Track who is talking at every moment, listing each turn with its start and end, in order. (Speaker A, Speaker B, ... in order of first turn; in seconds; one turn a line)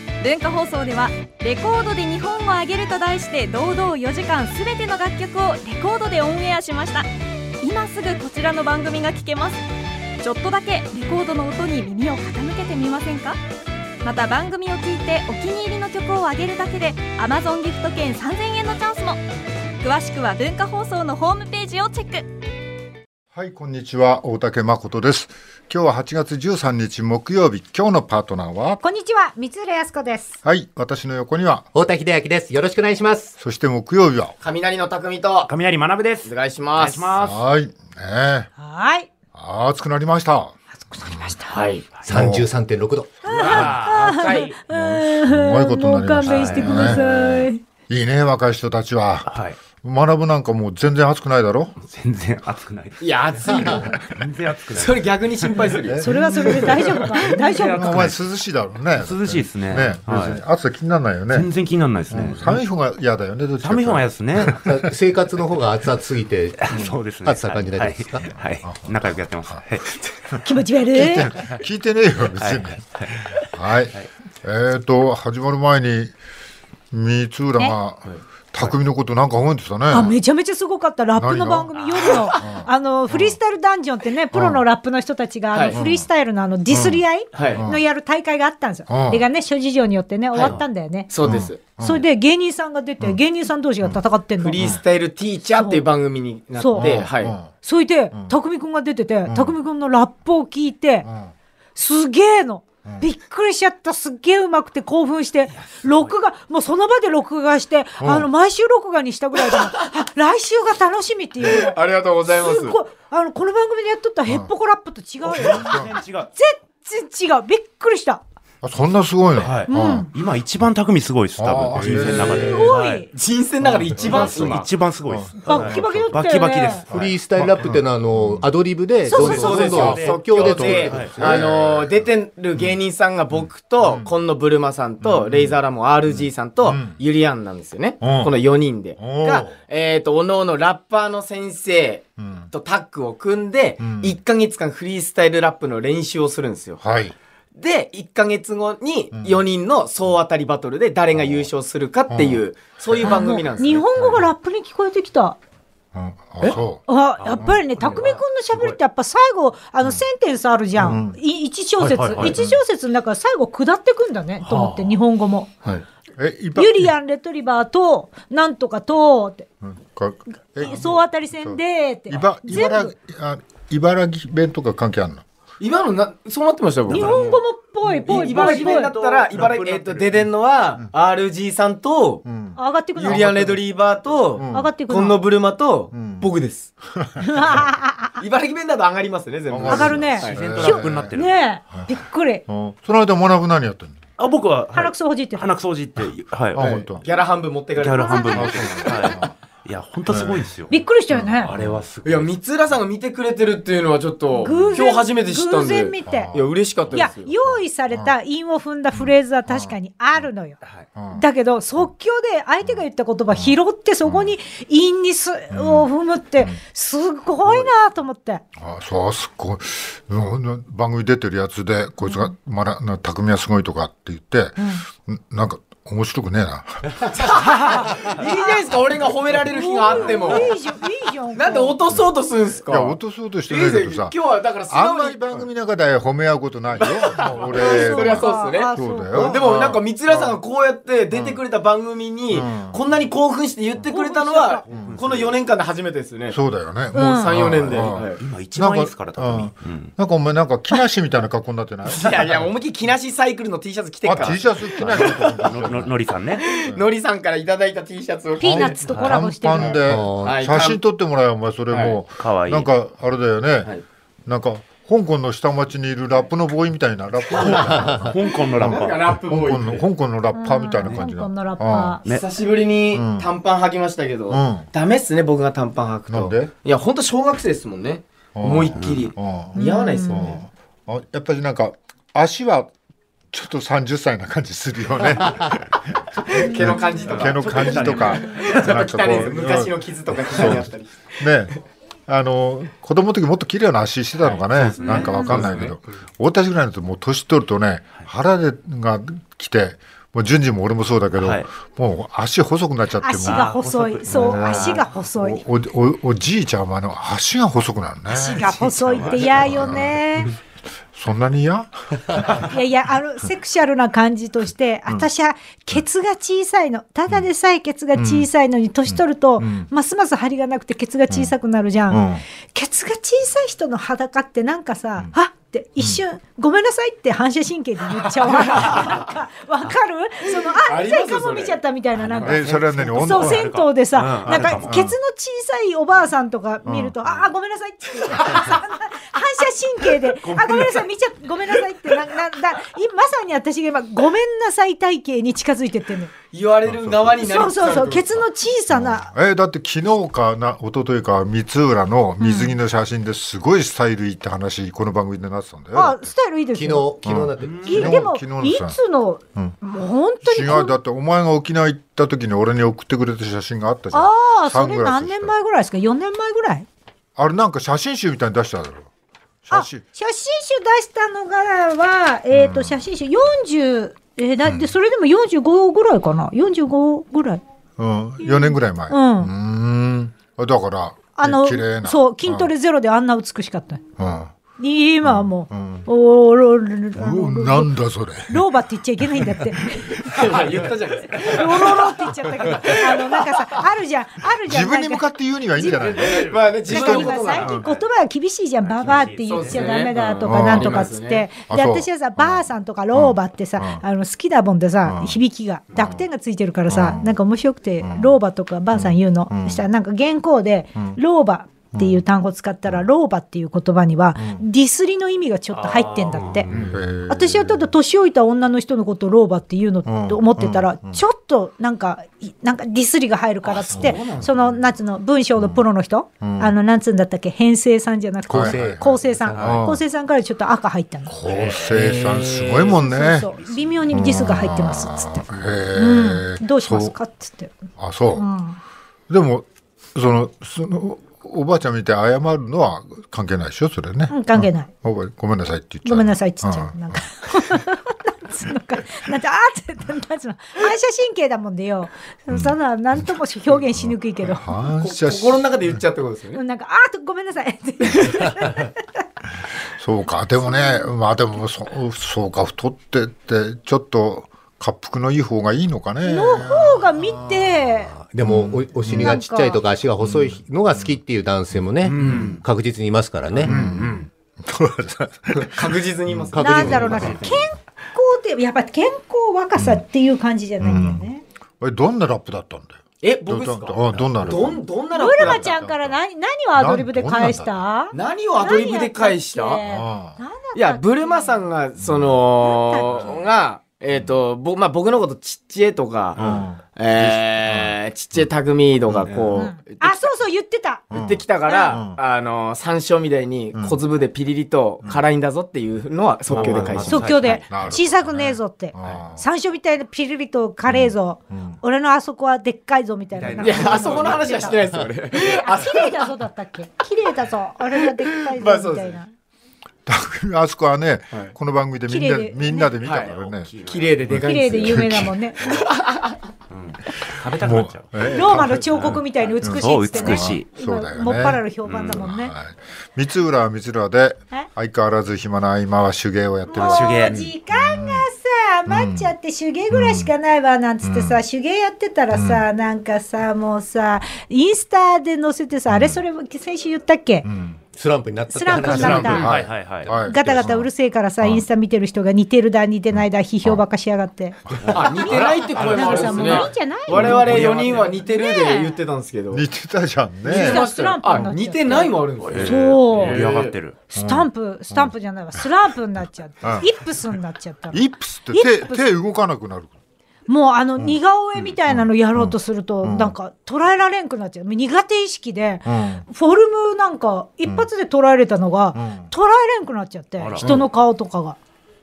Speaker A: 0.2-7.1
Speaker A: 7.6-9.6
Speaker A: 10.2-13.4
Speaker A: 14.0-19.2
Speaker A: 19.8-22.3
Speaker B: 23.3-28.8
Speaker C: 28.8-30.4
Speaker B: 30.4-31.7
Speaker D: 31.7-33.3
Speaker B: 33.4-34.3
Speaker E: 34.4-35.5
Speaker F: 35.5-37.4
Speaker E: 36.2-37.1
Speaker B: 37.2-38.5
Speaker C: 38.6-39.1
Speaker B: 39.3-41.3
Speaker C: 40.7-41.6
Speaker E: 41.5-41.9
Speaker D: 42.0-43.2
Speaker B: 42.1-42.5
Speaker F: 43.2-44.5
Speaker C: 43.2-47.6
Speaker E: 43.4-44.5
Speaker B: 44.7-51.7
Speaker F: 46.2-47.0
Speaker F: 49.2-49.6
Speaker F: 51.8-55.6
Speaker E: 53.0-54.0
Speaker E: 54.7-57.1
Speaker B: 55.8-61.5
Speaker C: 56.0-57.9
Speaker F: 57.1-58.2
Speaker F: 58.9-60.4
Speaker F: 61.3-62.6
Speaker B: 62.1-64.9
Speaker F: 63.6-64.6
Speaker D: 64.5-68.3
Speaker F: 66.6-70.0
Speaker B: 68.6-69.0
Speaker C: 70.4-71.3
Speaker B: 70.9-72.8
Speaker F: 72.4-73.4
Speaker B: 73.4-76.1
Speaker B: 76.9-80.2
Speaker C: 79.9-91.1
Speaker B: 81.2-83.4
Speaker F: 81.8-82.2
Speaker B: 84.3-84.6
Speaker E: 85.5-85.8
Speaker B: 85.7-86.1
Speaker B: 86.7-87.8
Speaker E: 87.3-87.7
Speaker B: 88.9-89.2
Speaker E: 90.3-91.6
Speaker B: 91.2-92.0
Speaker C: 91.7-94.7
Speaker E: 94.4-97.4
Speaker C: 95.6-95.8
Speaker C: 96.6-96.9
Speaker B: 96.8-97.5
Speaker C: 97.6-101.1
Speaker B: 99.3-99.6
Speaker B: 101.0-101.3
Speaker C: 101.8-111.8
Speaker F: 105.8-106.1
Speaker B: 108.0-108.3
Speaker E: 111.4-112.8
Speaker C: 112.3-118.2
Speaker B: 115.2-115.9
Speaker F: 115.3-116.3
Speaker B: 118.6-120.1
Speaker F: 119.4-123.1
Speaker C: 119.7-120.1
Speaker B: 121.4-122.6
Speaker E: 121.7-124.7
Speaker C: 122.3-123.1
Speaker B: 123.6-126.2
Speaker F: 123.9-126.9
Speaker C: 125.5-126.8
Speaker B: 126.9-128.5
Speaker D: 126.9-131.5
Speaker C: 129.1-130.0
Speaker E: 129.1-146.8
Speaker F: 129.1-131.2
Speaker B: 130.3-132.8
Speaker B: 133.3-134.1
Speaker B: 135.0-137.0
Speaker B: 138.0-138.3
Speaker B: 139.0-139.6
Speaker B: 142.2-142.5
Speaker B: 143.8-144.2
Speaker B: 146.8-147.2
Speaker E: 147.5-153.8
Speaker B: 149.1-149.5
Speaker B: 151.2-151.5
Speaker B: 152.1-153.1
Speaker C: 153.0-155.4
Speaker B: 155.9-157.6
Speaker C: 156.9-165.5
Speaker F: 157.3-158.8
Speaker B: 160.8-161.2
Speaker F: 161.8-162.4
Speaker B: 162.2-162.6
Speaker F: 164.4-165.0
Speaker B: 166.2-166.9
Speaker C: 166.6-169.5
Speaker B: 169.6-175.2
Speaker C: 170.6-172.9
Speaker E: 175.6-177.4
Speaker C: 176.9-178.9
Speaker F: 176.9-177.3
Speaker E: 178.1-182.2
Speaker F: 178.1-180.3
Speaker B: 182.2-182.6
Speaker C: 182.6-183.4
Speaker E: 183.0-186.7
Speaker B: 183.1-183.6
Speaker B: 184.3-184.7
Speaker C: 184.5-185.2
Speaker B: 185.9-186.3
Speaker B: 187.0-187.6
Speaker C: 187.2-188.2
Speaker E: 188.2-190.4
Speaker B: 189.5-191.2
Speaker C: 189.7-192.4
Speaker F: 190.2-191.4
Speaker B: 192.5-194.0
Speaker F: 194.2-196.8
Speaker C: 194.7-195.5
Speaker B: 196.5-197.0
Speaker E: 196.6-199.3
Speaker F: 197.8-200.8
Speaker C: 198.0-198.8
Speaker B: 198.3-199.3
Speaker B: 200.1-200.4
Speaker C: 200.7-201.5
Speaker B: 201.1-201.8
Speaker F: 201.4-202.3
Speaker E: 202.0-207.5
Speaker B: 204.4-204.8
Speaker C: 204.4-206.3
Speaker B: 206.1-207.0
Speaker C: 206.9-210.6
Speaker B: 208.9-209.8
Speaker B: 210.9-211.2
Speaker C: 211.1-218.4
Speaker B: 213.3-214.3
Speaker B: 215.5-216.6
Speaker B: 218.6-227.1
Speaker C: 222.0-222.3
Speaker C: 224.6-224.8
Speaker E: 227.1-230.5
Speaker C: 227.5-228.5
Speaker C: 229.4-231.8
Speaker E: 231.3-235.4
Speaker B: 232.7-234.2
Speaker B: 234.7-240.4
Speaker E: 236.8-246.4
Speaker C: 237.5-239.4
Speaker B: 241.1-241.4
Speaker B: 242.3-242.8
Speaker C: 243.8-244.6
Speaker F: 244.7-245.4
Speaker B: 244.7-245.0
Speaker B: 246.3-252.3
Speaker C: 246.9-247.3
Speaker E: 246.9-248.2
Speaker F: 247.7-249.9
Speaker E: 251.9-255.5
Speaker B: 254.0-255.9
Speaker F: 254.8-256.4
Speaker E: 256.4-260.8
Speaker B: 256.5-256.9
Speaker C: 258.4-259.8
Speaker B: 258.4-263.7
Speaker D: 259.9-260.3
Speaker E: 261.7-262.0
Speaker F: 262.2-262.7
Speaker B: 264.3-272.0
Speaker E: 267.3-267.9
Speaker F: 267.4-269.0
Speaker E: 268.6-269.8
Speaker C: 270.3-272.0
Speaker E: 272.1-280.4
Speaker B: 272.9-273.3
Speaker B: 274.3-274.7
Speaker B: 276.1-276.5
Speaker B: 278.4-282.7
Speaker F: 278.8-279.1
Speaker C: 279.6-280.4
Speaker B: 283.3-291.5
Speaker E: 286.3-291.0
Speaker C: 286.4-287.2
Speaker F: 287.0-288.9
Speaker B: 292.1-303.5
Speaker F: 294.5-295.7
Speaker E: 294.7-295.8
Speaker C: 294.9-295.4
Speaker F: 301.2-301.5
Speaker C: 303.0-305.4
Speaker F: 303.2-304.9
Speaker B: 304.1-310.3
Speaker C: 308.1-310.3
Speaker F: 308.4-309.8
Speaker B: 310.9-312.5
Speaker C: 312.4-346.1
Speaker B: 318.0-318.3
Speaker B: 318.9-319.7
Speaker B: 321.9-322.2
Speaker E: 328.3-329.0
Speaker E: 330.3-331.6
Speaker F: 332.1-334.7
Speaker B: 332.2-333.6
Speaker B: 334.3-335.0
Speaker B: 336.6-337.0
Speaker E: 346.3-348.2
Speaker B: 346.7-347.2
Speaker C: 347.2-349.1
Speaker B: 348.7-356.1
Speaker C: 352.2-352.5
Speaker C: 355.7-356.9
Speaker D: 356.5-357.9
Speaker B: 357.0-358.8
Speaker F: 357.4-357.8
Speaker C: 357.6-360.7
Speaker B: 360.2-365.3
Speaker C: 363.9-366.7
Speaker B: 367.2-368.9
Speaker B: 369.5-369.8
Speaker C: 369.5-377.4
Speaker B: 372.3-372.8
Speaker B: 374.4-374.7
Speaker B: 377.8-382.5
Speaker C: 378.2-379.3
Speaker C: 381.2-383.8
Speaker B: 384.0-384.3
Speaker C: 384.6-390.2
Speaker B: 385.0-385.9
Speaker B: 387.0-388.5
Speaker B: 389.0-390.0
Speaker E: 390.0-393.6
Speaker F: 390.3-391.4
Speaker C: 391.1-396.1
Speaker B: 394.5-397.6
Speaker F: 395.7-397.9
Speaker E: 396.0-397.5
Speaker C: 396.6-416.5
Speaker F: 398.6-399.9
Speaker E: 398.9-401.3
Speaker B: 400.2-400.9
Speaker B: 401.5-403.8
Speaker B: 404.9-405.2
Speaker B: 405.7-406.1
Speaker B: 406.7-407.1
Speaker B: 407.8-408.2
Speaker B: 408.7-409.7
Speaker B: 411.7-412.0
Speaker B: 414.2-414.4
Speaker F: 415.5-416.5
Speaker B: 416.5-417.7
Speaker C: 417.1-431.2
Speaker B: 419.9-421.0
Speaker E: 423.4-424.3
Speaker B: 423.7-424.6
Speaker B: 425.4-425.7
Speaker B: 426.2-426.5
Speaker D: 428.3-429.6
Speaker B: 428.3-429.8
Speaker B: 431.1-433.3
Speaker E: 431.3-432.8
Speaker C: 432.7-437.6
Speaker B: 433.9-436.9
Speaker B: 437.8-438.3
Speaker C: 438.2-438.6
Speaker B: 439.1-447.6
Speaker C: 444.1-444.7
Speaker C: 445.9-454.5
Speaker B: 452.3-453.1
Speaker B: 453.8-455.8
Speaker E: 454.7-456.4
Speaker C: 456.3-459.0
Speaker B: 459.7-467.7
Speaker C: 460.4-460.8
Speaker C: 466.0-467.9
Speaker D: 468.0-473.6
Speaker B: 468.2-469.2
Speaker C: 469.0-469.6
Speaker B: 470.0-471.0
Speaker E: 471.9-472.4
Speaker B: 471.9-472.4
Speaker B: 473.4-477.3
Speaker E: 473.4-474.1
Speaker E: 475.3-477.4
Speaker D: 476.3-477.1
Speaker C: 476.4-481.2
Speaker B: 479.6-479.8
Speaker B: 480.6-481.1
Speaker B: 481.6-486.0
Speaker E: 483.0-485.6
Speaker C: 484.9-491.5
Speaker B: 486.6-487.6
Speaker E: 487.9-489.6
Speaker B: 489.6-490.2
Speaker E: 490.6-496.2
Speaker B: 491.8-492.2
Speaker C: 492.4-493.2
Speaker B: 496.2-497.8
Speaker E: 496.8-500.1
Speaker B: 498.9-499.3
Speaker C: 499.4-500.8
Speaker B: 500.9-502.0
Speaker E: 500.9-507.1
Speaker C: 501.4-501.8
Speaker B: 506.3-509.2
Speaker F: 506.3-507.8
Speaker C: 506.9-514.6
Speaker B: 510.7-511.6
Speaker F: 513.2-514.8
Speaker E: 513.4-516.1
Speaker C: 515.1-519.1
Speaker E: 517.7-519.0
Speaker B: 519.9-523.5
Speaker C: 521.9-522.8
Speaker E: 522.8-523.1
Speaker F: 522.9-524.1
Speaker E: 523.6-526.2
Speaker B: 524.1-525.2
Speaker C: 524.2-525.4
Speaker F: 526.5-528.2
Speaker B: 527.3-538.1
Speaker C: 528.0-532.3
Speaker F: 528.8-530.5
Speaker F: 531.6-532.0
Speaker C: 536.5-547.3
Speaker F: 536.5-537.3
Speaker B: 538.6-539.1
Speaker B: 539.7-540.1
Speaker B: 540.8-541.2
Speaker B: 542.1-542.4
Speaker B: 545.7-546.0
Speaker B: 547.2-547.6
Speaker D: 547.7-549.3
Speaker C: 548.3-549.3
Speaker B: 548.6-550.7
Speaker F: 548.7-549.9
Speaker C: 550.0-558.8
Speaker B: 551.2-551.5
Speaker B: 552.9-553.6
Speaker B: 554.5-554.8
Speaker F: 554.6-558.1
Speaker E: 554.7-559.4
Speaker B: 559.3-561.3
Speaker E: 560.2-563.5
Speaker C: 560.3-563.2
Speaker F: 562.2-563.8
Speaker C: 563.9-567.8
Speaker B: 563.9-564.9
Speaker B: 566.4-566.9
Speaker B: 567.7-569.7
Speaker C: 568.3-568.9
Speaker C: 570.3-581.4
Speaker B: 571.6-573.1
Speaker B: 575.6-576.0
Speaker B: 578.8-579.1
Speaker F: 580.2-580.6
Speaker B: 580.4-580.7